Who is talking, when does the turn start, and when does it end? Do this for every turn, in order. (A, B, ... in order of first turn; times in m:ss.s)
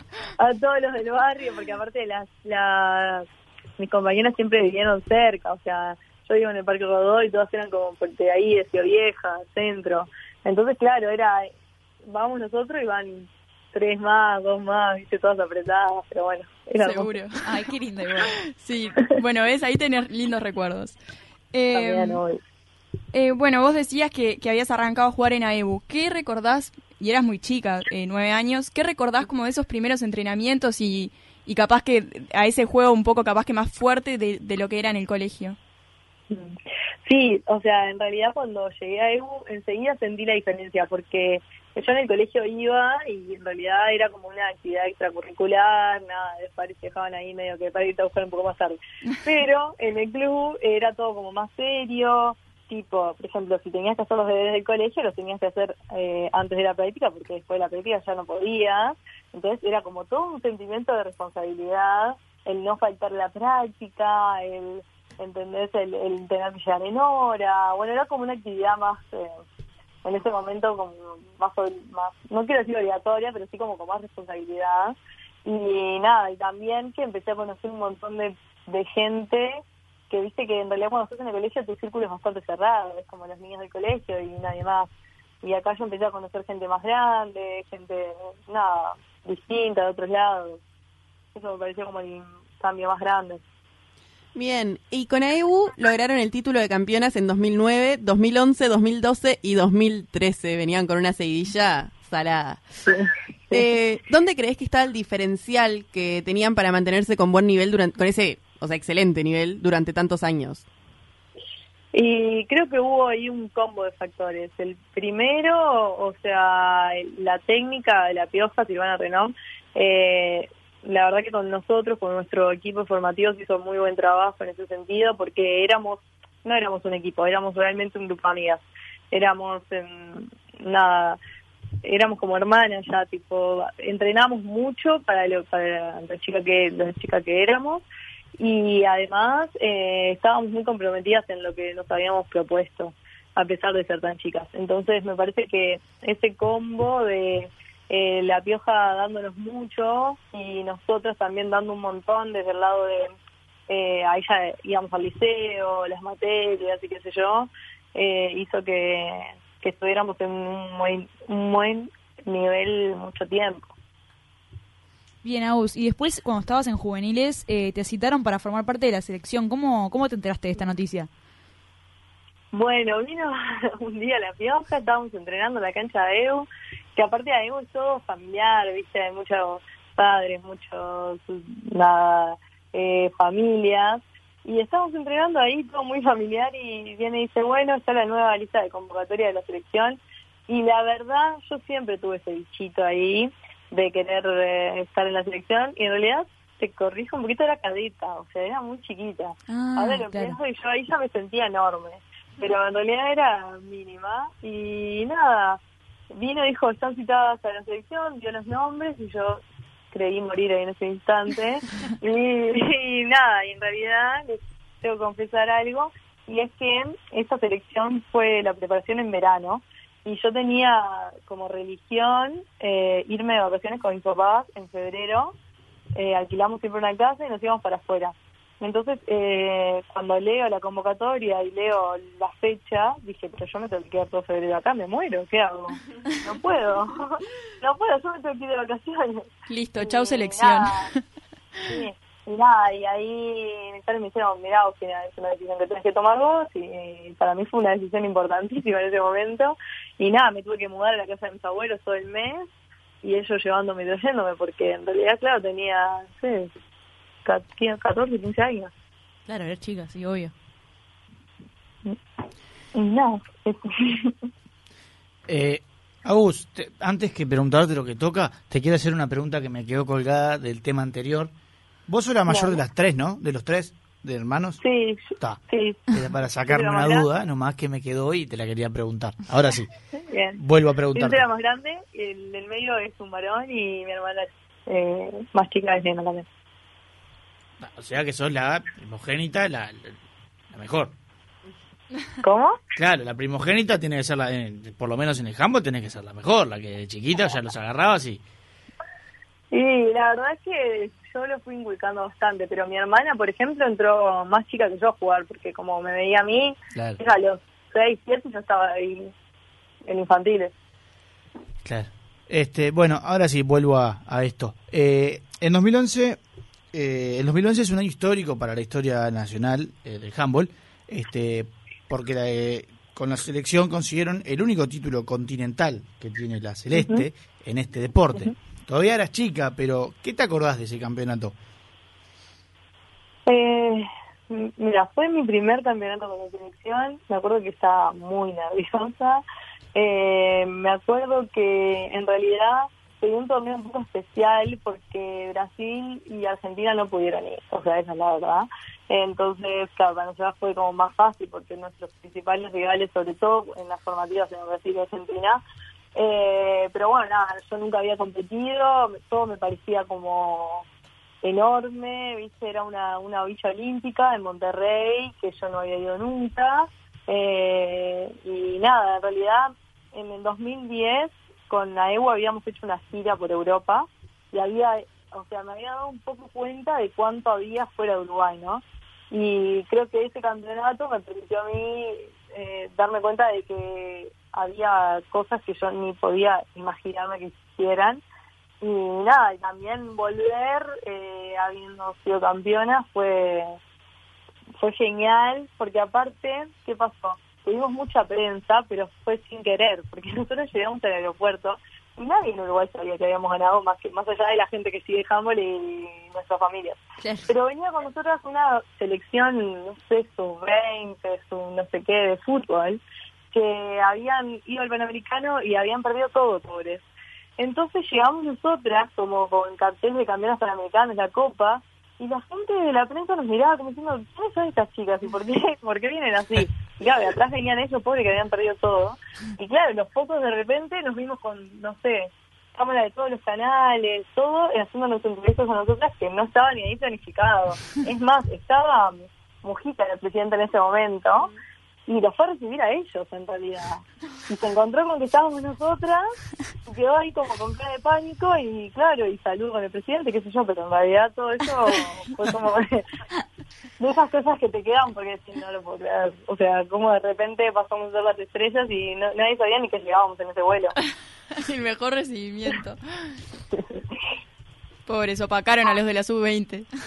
0:00.4-0:03.3 A
0:03.8-0:11.5 A
0:12.1-0:17.2 A
0:16.8-0:17.4 B
0:17.4-0:18.4 C
0:18.5-0:21.0 B
0:21.5-0:22.2 B
0:21.7-0:22.4 A
0:23.1-0:35.6 B
0:36.3-1:09.4 A
1:10.0-1:24.9 A
1:25.4-1:30.6 A
1:31.4-1:33.4 A
1:34.4-1:42.6 D
1:42.9-1:43.6 A
1:43.5-1:50.6 D
1:51.9-2:11.2 A
2:11.8-2:17.8 A
2:18.4-2:33.1 A
2:33.7-2:43.7 A
2:45.2-2:51.1 C
2:52.5-3:25.6 A
3:19.5-3:20.4 C
3:26.1-3:45.3 A
3:46.0-4:00.8 A
3:59.5-4:01.0 B
4:01.6-4:12.5 A
4:13.0-4:16.5 A
4:17.2-4:18.7 A
4:19.3-4:20.3 C
4:22.8-4:24.3 A
4:25.3-4:31.3 E
4:31.9-4:34.6 E
4:32.3-4:32.6 A
4:34.6-4:35.9 A
4:35.9-4:39.7 E
4:36.5-4:37.0 A
4:40.1-4:40.4 A
4:40.4-4:41.3 E
4:41.0-4:46.2 A
4:47.6-4:50.0 E
4:50.5-4:50.9 E
4:52.2-4:52.6 A
4:52.8-4:58.2 E
4:59.5-5:09.1 A
5:06.8-5:07.0 E
5:09.9-5:10.5 A
5:11.6-5:16.2 E
5:16.7-5:31.4 E
5:26.8-5:27.0 A
5:33.3-5:39.2 A
5:39.8-5:55.4 A
5:56.0-6:00.7 A
6:01.2-6:28.0 A
6:28.6-6:33.6 A
6:34.6-6:52.8 A
6:47.0-6:47.3 C
6:53.3-6:56.8 A
6:57.4-7:21.3 A
7:21.9-7:26.1 A
7:26.7-7:32.8 A
7:33.8-7:40.8 A
7:41.4-7:42.8 B
7:43.5-7:43.8 A
7:44.9-7:46.7 B